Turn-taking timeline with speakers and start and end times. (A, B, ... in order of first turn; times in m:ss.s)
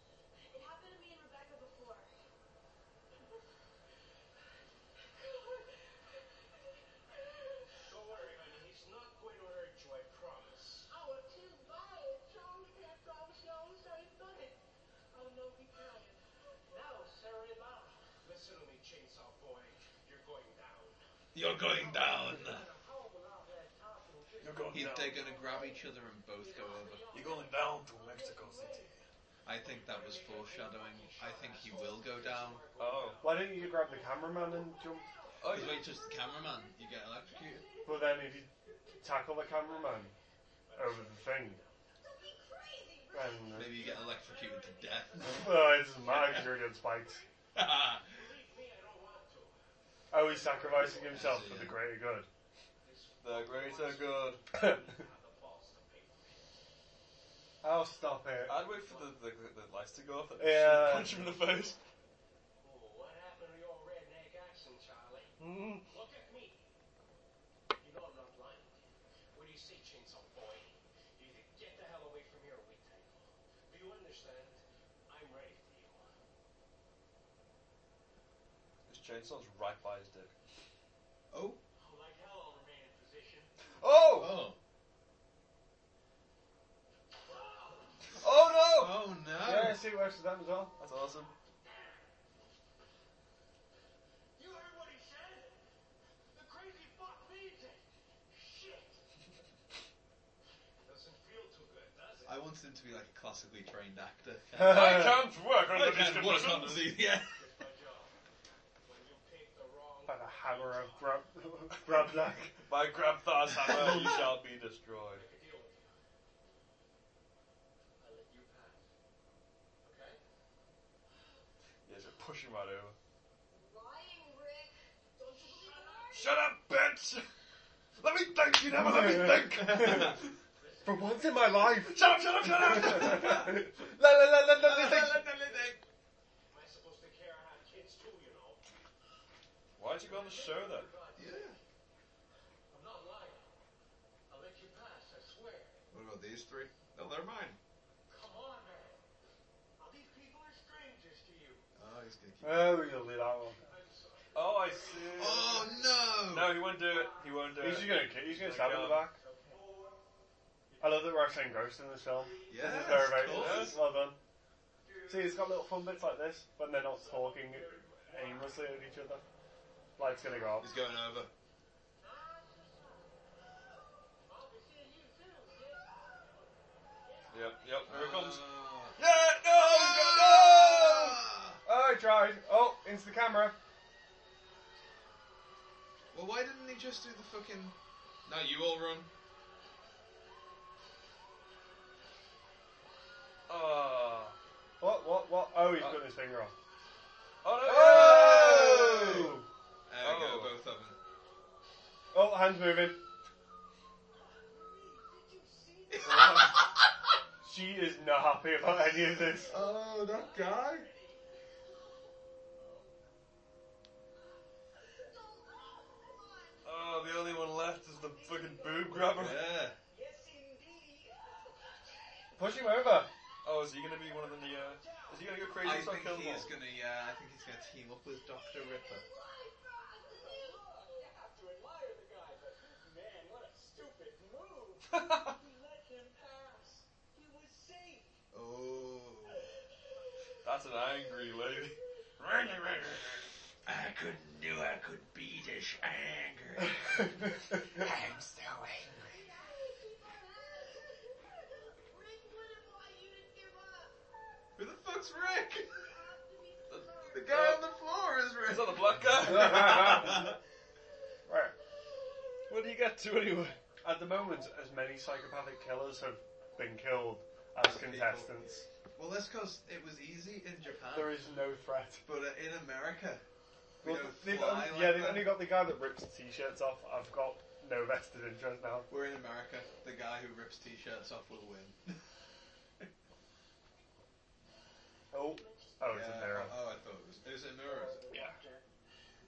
0:00.5-0:02.1 A
0:07.8-0:10.9 B
0:10.9-0:14.6 A
0:15.1-0:28.9 B
0:21.3-0:22.7 C
0:24.4-0:25.2 D
0:24.7-0:27.1 C
0:27.1-0:28.9 D
0:29.4-0:32.7 C
0:29.5-0:35.7 B
0:32.8-0:33.4 D
0:33.2-0:35.1 E
0:35.4-0:35.9 D
0:35.5-0:37.6 C
0:37.2-0:37.9 B
0:37.8-0:38.5 E
0:39.0-0:40.1 E
0:39.6-0:40.0 B
0:40.7-0:42.0 B
0:40.8-0:41.6 E
0:42.0-0:45.4 A
0:43.1-0:43.9 E
0:43.6-0:46.6 C
0:43.8-0:44.2 B
0:45.2-0:47.2 E
0:47.6-0:48.2 C
0:48.0-0:51.4 B
0:50.1-0:52.3 E
0:51.1-0:51.9 C
0:52.8-0:56.5 B
0:53.2-0:54.4 D
0:54.5-0:54.9 E
0:57.6-0:58.6 E
0:58.5-1:01.8 D
0:58.6-0:59.3 B
1:00.4-1:01.4 E
1:02.6-1:06.6 B
1:05.4-1:05.9 E
1:07.8-1:16.2 B
1:18.9-1:20.3 D
1:21.3-1:21.6 C
1:21.8-1:23.5 B
1:23.8-1:24.5 D
1:24.1-1:24.6 C
1:27.2-1:28.3 B
1:28.2-1:29.1 D
1:28.7-1:29.9 C
1:29.4-1:30.8 E
1:30.8-1:31.3 D
1:31.6-1:32.0 B
1:34.4-1:35.6 B
1:36.3-1:39.0 B
1:40.8-1:42.4 B
1:42.3-1:47.4 C
1:44.5-1:45.2 E
1:44.6-1:47.0 D
1:47.3-1:48.2 B
1:48.8-1:51.2 B
1:50.1-1:52.6 E
1:52.7-1:55.3 D
1:53.7-1:54.3 C
1:55.1-1:56.0 B
1:58.0-1:58.8 B
1:59.8-2:00.2 B
2:01.8-2:03.0 D
2:03.5-2:06.3 A
2:05.4-2:06.4 B
2:06.1-2:07.3 D
2:08.0-2:10.3 D
2:08.7-2:10.2 E
2:09.6-2:10.2 C
2:10.6-2:11.5 B
2:10.8-2:15.3 E
2:11.8-2:13.7 D
2:14.5-2:15.8 C
2:16.5-2:18.6 B
2:19.8-2:20.9 D
2:20.0-2:21.6 B
2:21.2-2:21.6 C
2:22.7-2:23.5 B
2:24.3-2:25.8 B
2:25.9-2:27.6 C
2:28.1-2:29.0 B
2:29.8-2:31.7 B
2:31.8-2:32.8 C
2:32.4-2:33.6 E
2:33.6-2:36.2 B
2:34.3-2:39.1 D
2:35.1-2:36.7 C
2:36.8-2:37.8 B
2:37.6-2:39.2 E
2:39.2-2:40.0 B
2:40.7-2:41.1 B
2:40.8-2:44.2 E
2:42.3-2:42.8 B
2:42.5-2:43.8 C
2:43.2-2:43.8 D
2:44.8-2:45.7 B
2:45.1-2:49.2 E
2:46.8-2:48.7 B
2:50.0-2:50.7 E
2:50.6-2:51.3 C
2:52.3-2:53.1 A
2:54.2-2:57.7 B
2:57.3-3:01.2 D
2:57.9-3:01.6 C
3:01.6-3:03.6 E
3:06.1-3:09.1 C
3:13.5-3:14.4 D
3:14.8-3:16.5 E
3:15.8-3:16.1 D
3:17.4-3:19.2 D
3:17.6-3:19.5 E
3:17.6-3:21.0 C
3:20.0-3:20.6 D
3:22.1-3:23.0 E
3:24.2-3:26.5 B
3:25.9-3:26.7 C
3:27.4-3:29.6 E
3:29.3-3:31.3 B
3:29.4-3:30.9 C
3:32.6-3:32.9 B
3:34.9-3:38.9 A
3:36.6-3:39.5 D
3:39.1-3:39.8 C
3:39.9-3:42.6 B
3:42.4-3:43.1 E
3:43.4-3:46.6 D
3:44.2-3:45.7 B
3:45.6-3:49.1 C
3:48.3-3:51.2 A
3:50.1-3:58.2 B
3:54.9-3:55.4 D
3:58.3-3:59.4 C
4:00.4-4:03.2 D
4:03.6-4:08.9 C
4:07.8-4:09.0 D
4:09.1-4:14.1 A
4:14.6-4:15.8 C
4:15.3-4:17.7 A
4:16.7-4:17.7 D
4:17.1-4:20.4 C
4:18.4-4:20.2 D
4:19.2-4:20.3 E
4:21.3-4:21.6 E
4:22.5-4:23.6 D
4:23.8-4:28.6 E
4:27.6-4:31.3 C
4:30.9-4:32.0 E
4:32.1-4:33.2 C
4:33.8-4:35.5 C
4:33.8-4:38.9 E
4:38.9-4:42.0 C
4:45.1-4:46.6 E
4:45.1-4:46.4 A
4:45.9-4:48.1 C
4:47.5-4:48.7 B
4:48.1-4:48.4 E